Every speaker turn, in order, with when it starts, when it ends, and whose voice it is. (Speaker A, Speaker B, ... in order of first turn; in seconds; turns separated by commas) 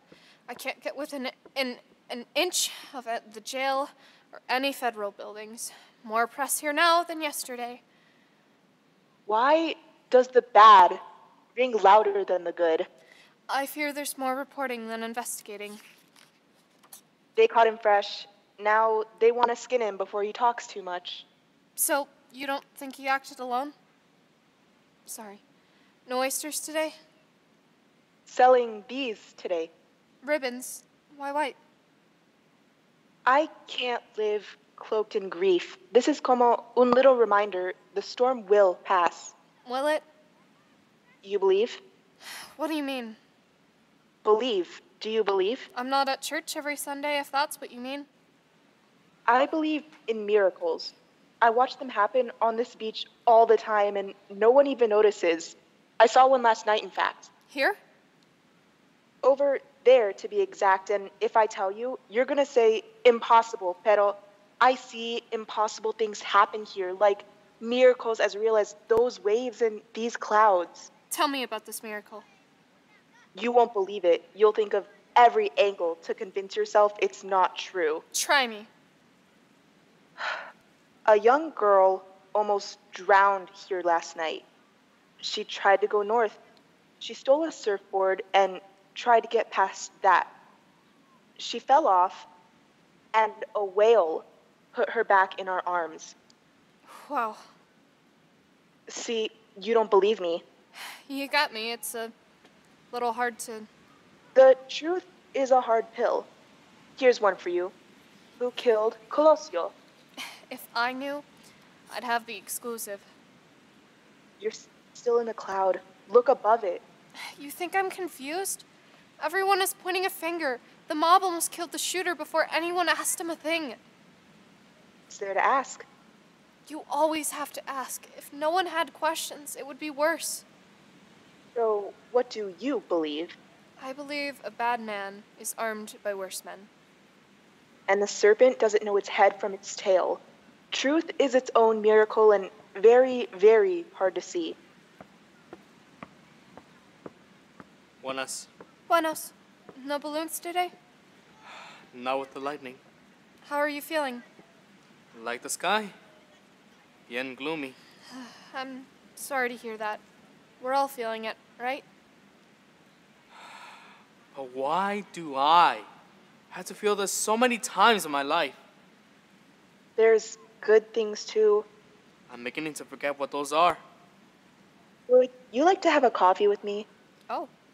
Speaker A: 0.5-7.8, Speaker B: 9.3-11.0, Speaker B: 11.6-12.9, Speaker A: 13.5-15.8, Speaker B: 17.4-21.2, Speaker A: 21.8-23.8, Speaker A: 25.1-25.4, Speaker A: 26.1-27.0, Speaker B: 28.3-29.7, Speaker A: 30.2-31.6, Speaker B: 33.2-39.3, Speaker A: 39.7-40.0, Speaker B: 41.2-41.8, Speaker A: 42.5-43.2, Speaker B: 44.2-45.7, Speaker A: 45.7-48.1, Speaker B: 49.3-57.3, Speaker A: 57.5-57.8, Speaker B: 59.2-70.9, Speaker A: 71.1-72.2, Speaker B: 73.3-78.0, Speaker A: 78.1-78.7, Speaker B: 81.1-84.5, Speaker B: 85.2-86.4, Speaker B: 87.0-90.3, Speaker B: 91.4-92.3, Speaker B: 93.1-96.2, Speaker A: 96.9-97.5, Speaker B: 98.9-100.4, Speaker A: 101.0-102.1, Speaker A: 102.9-103.7, Speaker B: 104.3-106.3, Speaker B: 107.0-107.7, Speaker B: 108.4-109.7, Speaker A: 110.5-111.3, Speaker A: 111.9-113.1, Speaker B: 114.4-116.8, Speaker A: 117.3-118.7, Speaker A: 119.2-123.8, Speaker B: 125.1-125.9, Speaker A: 126.7-130.4, Speaker B: 131.6-133.4, Speaker A: 133.8-136.7, Speaker B: 137.9-140.2, Speaker B: 140.7-144.6, Speaker C: 148.0-148.5, Speaker A: 148.9-150.7, Speaker C: 151.9-152.8, Speaker A: 153.4-154.2, Speaker C: 155.1-155.9, Speaker C: 157.1-157.8, Speaker A: 158.1-160.0, Speaker A: 160.6-161.8, Speaker C: 164.3-165.9, Speaker C: 166.5-168.6, Speaker B: 170.0-171.7, Speaker C: 172.3-173.8, Speaker B: 175.1-176.9